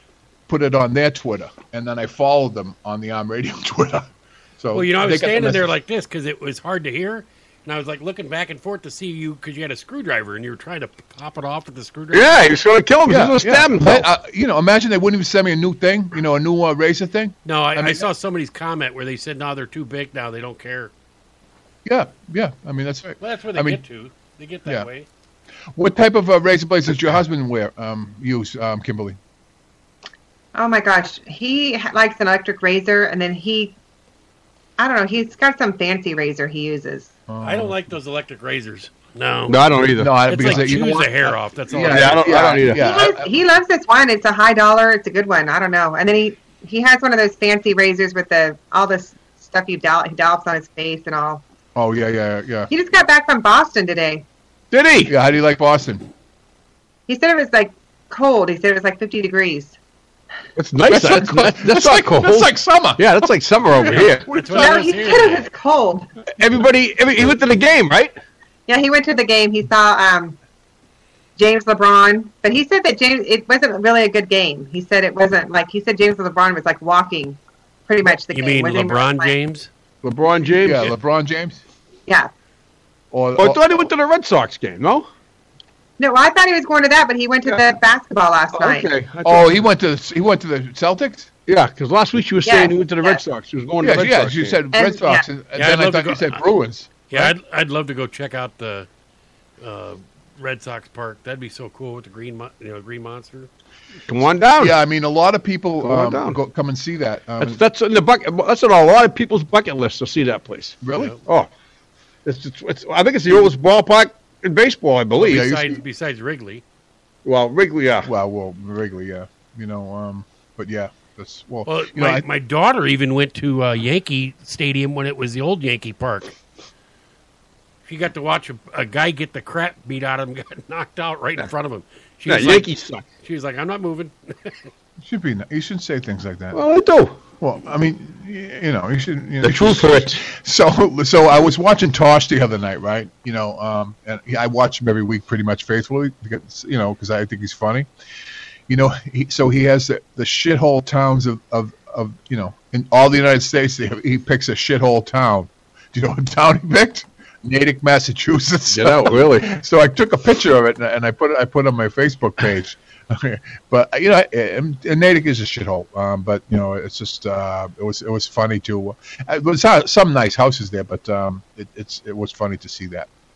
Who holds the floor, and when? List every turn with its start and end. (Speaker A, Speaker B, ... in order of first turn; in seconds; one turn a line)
Speaker A: 0.5-5.7
Speaker B: 4.7-12.5
Speaker C: 12.1-14.1
Speaker A: 13.1-18.0
Speaker B: 17.4-20.9
Speaker A: 21.8-23.8
Speaker B: 23.2-25.1
Speaker A: 25.8-29.2
Speaker D: 30.5-33.8
Speaker D: 34.8-37.1
Speaker A: 37.3-37.8
Speaker B: 37.4-39.6
Speaker C: 39.5-41.0
Speaker A: 40.0-43.3
Speaker B: 40.2-42.6
Speaker C: 41.8-42.8
Speaker D: 42.8-51.4
Speaker A: 51.7-52.7
Speaker D: 52.7-54.2
Speaker C: 54.7-55.1
Speaker A: 55.0-56.0
Speaker D: 57.1-59.8
Speaker C: 60.5-64.3
Speaker A: 60.9-64.9
Speaker B: 63.9-65.5
Speaker D: 64.5-66.1
Speaker C: 66.4-68.1
Speaker D: 68.7-70.4
Speaker D: 71.4-79.3
Speaker B: 78.1-79.7
Speaker C: 80.0-80.9
Speaker A: 80.6-81.6
Speaker A: 83.1-83.9
Speaker C: 83.3-85.1
Speaker D: 86.0-88.9
Speaker C: 88.5-89.5
Speaker A: 89.2-91.3
Speaker C: 91.5-94.6
Speaker D: 92.4-93.2
Speaker A: 93.8-97.3
Speaker D: 94.7-95.2
Speaker B: 95.5-96.4
Speaker B: 97.1-98.9
Speaker B: 99.6-103.5
Speaker C: 104.1-104.8
Speaker A: 104.6-107.6
Speaker C: 105.8-106.4
Speaker C: 107.4-111.5
Speaker A: 110.8-111.1
Speaker C: 112.2-115.5
Speaker B: 115.2-116.6
Speaker A: 115.2-115.8
Speaker C: 117.2-118.1
Speaker A: 118.0-122.2
Speaker B: 121.7-126.3
Speaker B: 127.9-132.7
Speaker C: 132.3-133.0
Speaker B: 133.2-134.7
Speaker A: 135.0-136.6
Speaker C: 136.5-137.2
Speaker A: 137.4-147.9
Speaker C: 139.4-140.2
Speaker A: 148.7-173.1
Speaker C: 158.7-159.5